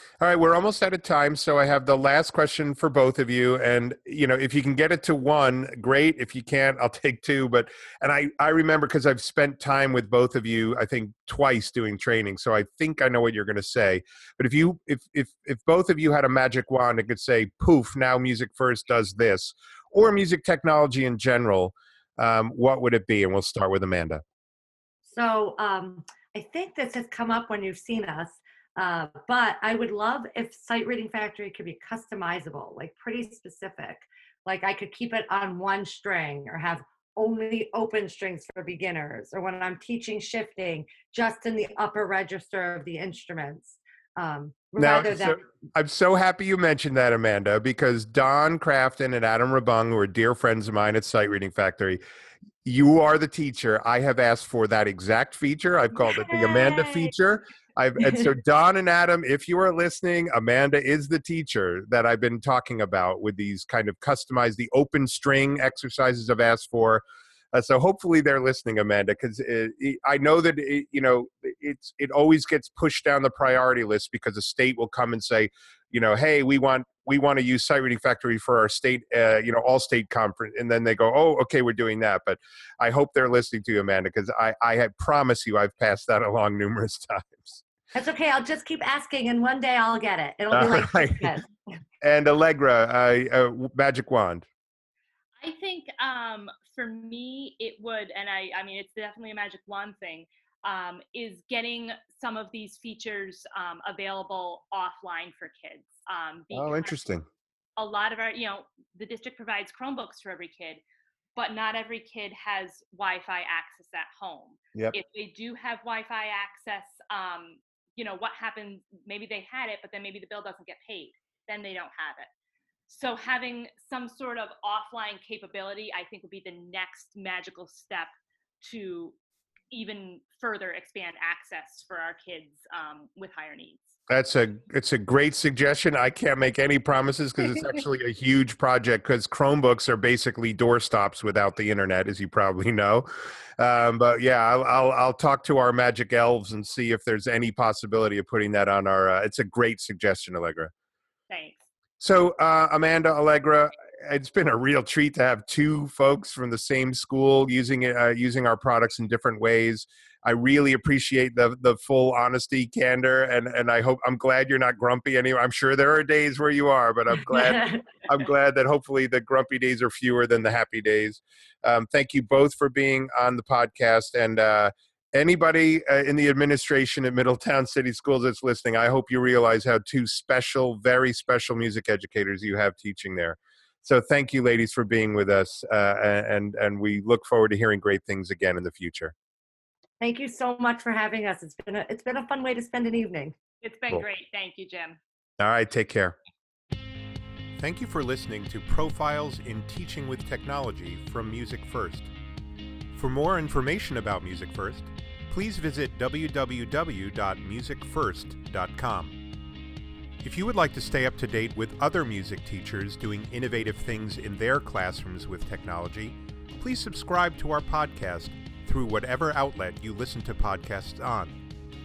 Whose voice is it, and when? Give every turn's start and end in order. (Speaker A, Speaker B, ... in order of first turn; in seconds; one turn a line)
Speaker A: 0.2-24.2
Speaker B: 25.0-45.4
Speaker A: 44.8-52.0
Speaker A: 52.6-87.6
Speaker B: 56.2-57.1
Speaker B: 58.0-58.3
Speaker B: 87.9-91.5
Speaker A: 90.5-91.3
Speaker A: 92.0-94.5
Speaker C: 95.4-107.0
Speaker A: 106.5-107.2
Speaker C: 107.8-110.8
Speaker C: 111.3-122.3
Speaker C: 122.9-129.2
Speaker C: 129.7-134.0
Speaker A: 134.1-143.1
Speaker C: 137.4-137.8
Speaker A: 143.6-150.7
Speaker C: 151.3-151.6
Speaker A: 152.0-189.1
Speaker B: 167.2-168.0
Speaker B: 190.0-193.3
Speaker C: 193.6-195.0
Speaker A: 195.4-196.2
Speaker A: 197.6-202.1
Speaker A: 202.9-209.2
Speaker A: 210.2-221.4